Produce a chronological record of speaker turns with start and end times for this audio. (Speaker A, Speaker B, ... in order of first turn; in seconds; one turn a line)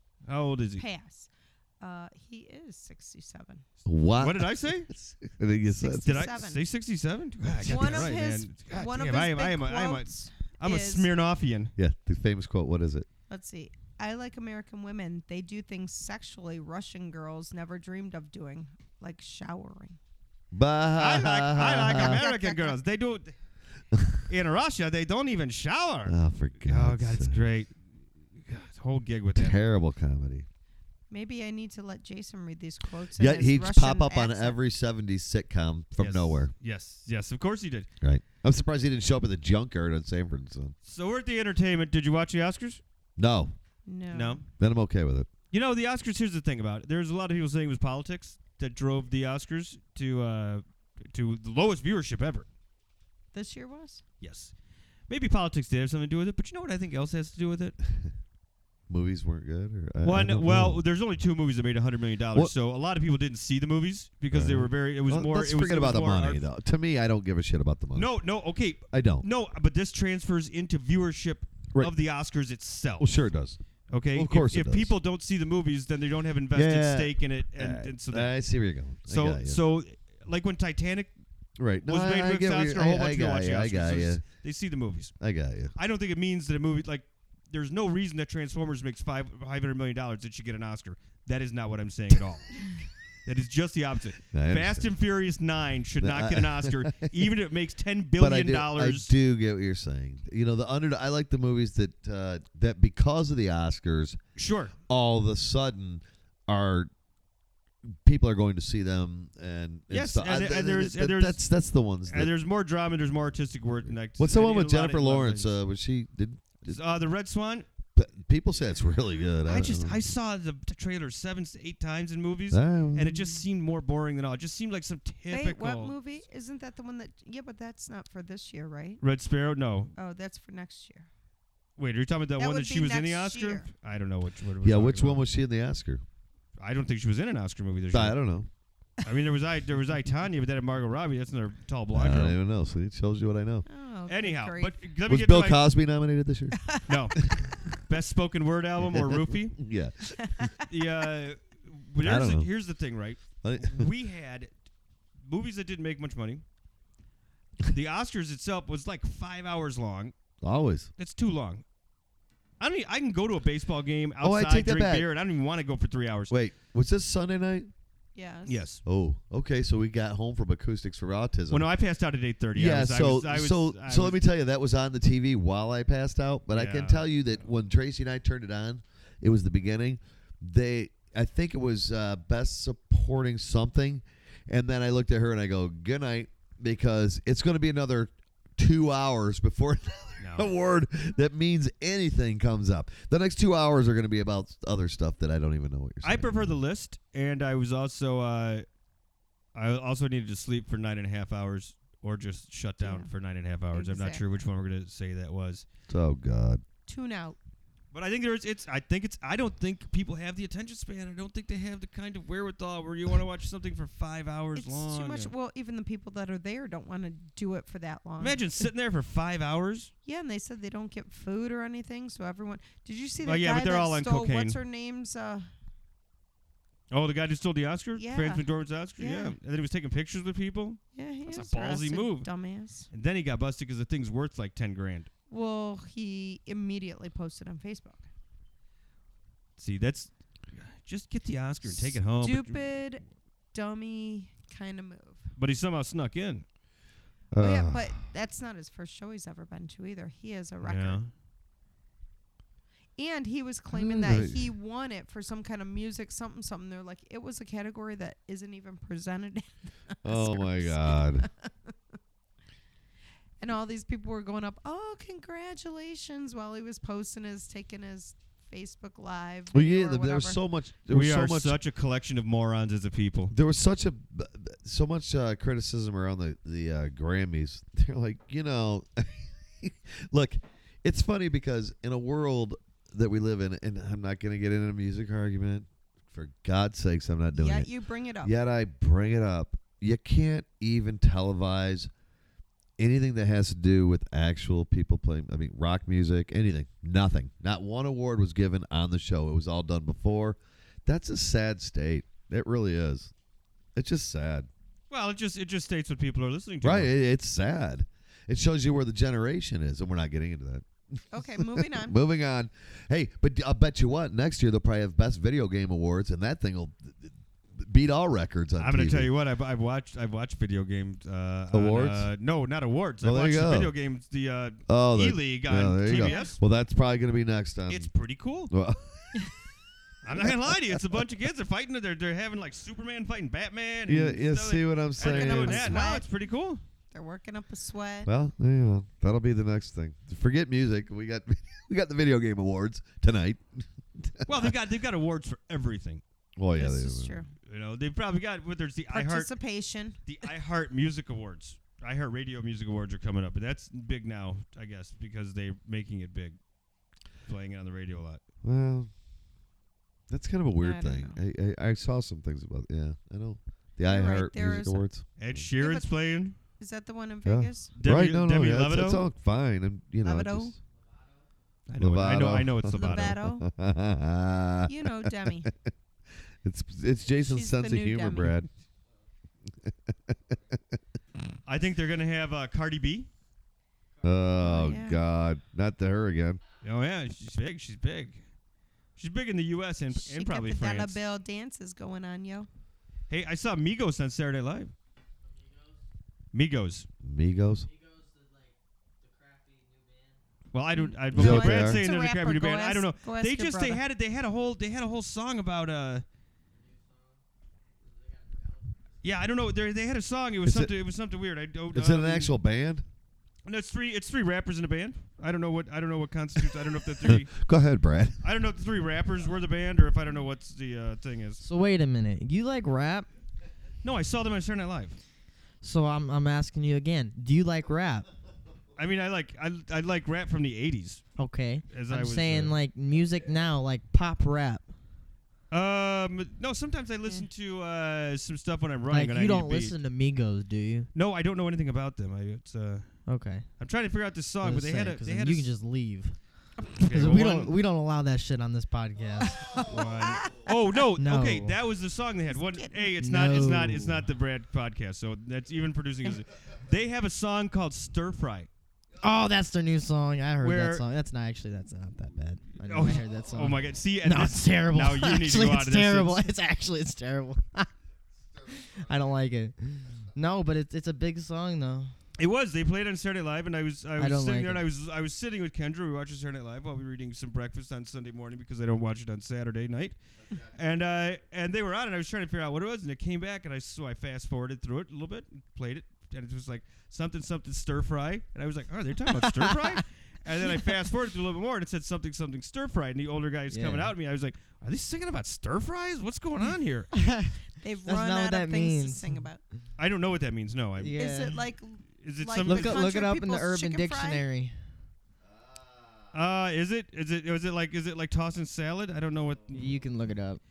Speaker A: 0.3-0.8
Speaker B: 0.8-3.6
Speaker C: 3.9-6.3
Speaker A: 4.2-4.9
Speaker B: 5.7-6.6
Speaker A: 6.0-11.7
Speaker C: 7.5-8.1
Speaker B: 7.6-11.1
Speaker C: 11.8-13.1
Speaker B: 13.3-20.0
Speaker C: 20.5-22.2
Speaker A: 21.0-23.3
Speaker B: 21.9-22.8
Speaker A: 24.2-27.7
Speaker C: 26.1-27.4
Speaker A: 28.4-29.6
Speaker C: 29.3-30.4
Speaker B: 31.1-34.6
Speaker C: 33.2-36.5
Speaker A: 36.0-37.9
Speaker C: 38.0-40.7
Speaker A: 40.8-42.8
Speaker C: 43.2-43.5
Speaker B: 43.9-44.4
Speaker A: 44.1-44.5
Speaker C: 44.6-45.3
Speaker A: 45.5-52.5
Speaker B: 53.3-54.0
Speaker A: 54.2-54.5
Speaker A: 55.1-57.8
Speaker C: 58.9-60.8
Speaker A: 60.0-66.4
Speaker C: 64.3-68.1
Speaker A: 67.9-73.1
Speaker C: 68.9-69.2
Speaker C: 73.0-73.6
Speaker A: 73.9-78.3
Speaker C: 74.1-74.9
Speaker C: 76.5-79.6
Speaker A: 79.1-81.1
Speaker C: 81.6-84.2
Speaker A: 81.8-85.1
Speaker C: 85.2-85.7
Speaker A: 85.8-92.6
Speaker A: 93.2-99.1
Speaker C: 94.3-94.9
Speaker C: 96.0-97.1
Speaker C: 98.2-104.2
Speaker A: 104.3-104.7
Speaker C: 104.9-106.9
Speaker C: 108.0-112.3
Speaker A: 109.9-111.4
Speaker A: 112.1-115.5
Speaker C: 114.2-116.8
Speaker A: 116.6-117.7
Speaker C: 117.9-120.0
Speaker A: 119.5-126.0
Speaker C: 122.5-123.4
Speaker B: 125.3-129.0
Speaker A: 129.0-129.9
Speaker B: 129.9-131.1
Speaker A: 131.8-135.2
Speaker B: 132.4-133.7
Speaker C: 134.6-136.0
Speaker A: 136.6-138.2
Speaker C: 137.9-138.5
Speaker A: 139.0-142.4
Speaker C: 141.9-143.6
Speaker B: 143.7-144.8
Speaker A: 144.1-145.6
Speaker C: 145.1-146.6
Speaker B: 146.6-146.9
Speaker A: 146.9-149.6
Speaker C: 148.8-150.5
Speaker B: 150.2-150.6
Speaker A: 150.7-154.5
Speaker C: 152.0-152.5
Speaker C: 153.4-153.9
Speaker A: 155.2-156.4
Speaker A: 157.6-160.1
Speaker C: 160.4-160.9
Speaker A: 161.0-161.6
Speaker A: 162.6-166.3
Speaker C: 164.2-165.1
Speaker C: 166.3-167.7
Speaker B: 168.1-168.6
Speaker A: 168.5-168.8
Speaker C: 168.8-171.7
Speaker A: 171.5-174.2
Speaker C: 172.5-196.6
Speaker A: 176.5-177.1
Speaker A: 190.2-190.5
Speaker A: 196.0-198.7
Speaker A: 199.5-205.6
Speaker B: 202.8-203.1
Speaker B: 203.7-204.2
Speaker C: 205.9-206.6
Speaker B: 206.9-207.4
Speaker A: 207.9-215.3
Speaker B: 214.6-218.4
Speaker A: 218.2-219.9
Speaker B: 220.0-225.4
Speaker A: 223.2-224.6
Speaker A: 226.9-232.3
Speaker B: 228.0-228.4
Speaker B: 229.0-229.3
Speaker B: 230.9-232.9
Speaker A: 232.9-235.1
Speaker B: 235.3-238.1
Speaker A: 239.6-242.6
Speaker B: 241.7-245.3
Speaker A: 245.4-246.4
Speaker C: 247.3-247.9
Speaker B: 247.4-251.0
Speaker A: 250.6-251.1
Speaker B: 253.0-261.7
Speaker C: 253.7-254.5
Speaker C: 260.0-261.3
Speaker B: 263.4-270.4
Speaker C: 269.5-271.6
Speaker A: 270.9-273.3
Speaker C: 273.3-287.7
Speaker B: 287.3-288.3
Speaker C: 288.2-291.9
Speaker C: 292.8-303.1
Speaker C: 303.7-304.5
Speaker A: 304.9-306.9
Speaker C: 306.6-310.6
Speaker B: 311.1-312.0
Speaker C: 311.4-319.1
Speaker A: 318.6-326.4
Speaker C: 321.5-322.1
Speaker C: 323.0-323.7
Speaker C: 324.7-327.9
Speaker B: 325.9-326.3
Speaker A: 327.7-328.5
Speaker C: 328.5-329.3
Speaker A: 330.0-336.6
Speaker C: 330.0-331.0
Speaker C: 333.9-335.9
Speaker B: 335.0-336.1
Speaker B: 336.9-338.1
Speaker C: 338.1-344.5
Speaker A: 344.2-346.0
Speaker C: 346.4-347.2
Speaker B: 346.5-347.3
Speaker A: 347.4-349.3
Speaker B: 348.9-350.0
Speaker A: 350.1-356.4
Speaker A: 357.2-358.2
Speaker C: 358.4-358.9
Speaker C: 360.1-365.5
Speaker B: 360.6-361.2
Speaker B: 363.9-364.8
Speaker A: 365.2-366.4
Speaker B: 365.6-365.9
Speaker B: 366.6-367.7
Speaker C: 367.2-370.6
Speaker A: 367.8-369.0
Speaker B: 370.0-370.5
Speaker A: 371.7-373.2
Speaker C: 371.8-375.7
Speaker B: 372.7-373.5
Speaker B: 374.7-375.5
Speaker C: 376.4-378.5
Speaker B: 377.2-378.4
Speaker C: 379.6-380.6
Speaker A: 381.4-383.1
Speaker C: 384.0-386.4
Speaker B: 384.4-385.0
Speaker A: 386.6-388.2
Speaker A: 388.9-391.0
Speaker B: 389.9-392.5
Speaker A: 393.1-394.7
Speaker A: 396.3-396.9
Speaker C: 397.0-397.7
Speaker D: 397.7-398.5
Speaker D: 399.0-400.1
Speaker A: 400.5-406.0
Speaker B: 400.7-403.8
Speaker C: 401.1-401.8
Speaker D: 408.0-408.8
Speaker A: 409.0-412.3
Speaker C: 410.4-410.7
Speaker C: 411.7-412.8
Speaker A: 413.4-417.3
Speaker C: 417.0-418.2
Speaker A: 418.2-421.4
Speaker D: 421.4-423.1
Speaker A: 423.8-425.0
Speaker D: 425.6-428.1
Speaker A: 428.8-431.0
Speaker D: 431.2-434.7
Speaker A: 431.7-432.5
Speaker A: 435.5-439.8
Speaker D: 438.9-440.9
Speaker A: 440.9-443.0
Speaker D: 443.1-443.4
Speaker A: 443.6-445.5
Speaker D: 444.4-446.2
Speaker D: 446.7-449.7
Speaker A: 446.8-447.5
Speaker B: 449.2-450.6
Speaker A: 449.6-458.5
Speaker D: 451.0-451.6
Speaker B: 452.3-452.9
Speaker D: 453.0-454.1
Speaker D: 459.0-467.7
Speaker A: 460.4-460.8
Speaker A: 462.7-466.2
Speaker C: 468.2-469.0
Speaker D: 468.5-471.9
Speaker A: 472.2-496.9
Speaker D: 474.0-474.7
Speaker C: 480.2-480.6
Speaker D: 489.2-489.7
Speaker D: 493.5-493.9
Speaker B: 497.0-499.4
Speaker D: 497.8-499.2
Speaker A: 499.8-501.0
Speaker D: 500.8-501.4
Speaker B: 500.9-504.2
Speaker A: 502.0-502.9
Speaker D: 502.4-504.5
Speaker C: 505.2-506.2
Speaker A: 506.1-509.7
Speaker C: 509.2-509.9
Speaker D: 509.5-510.4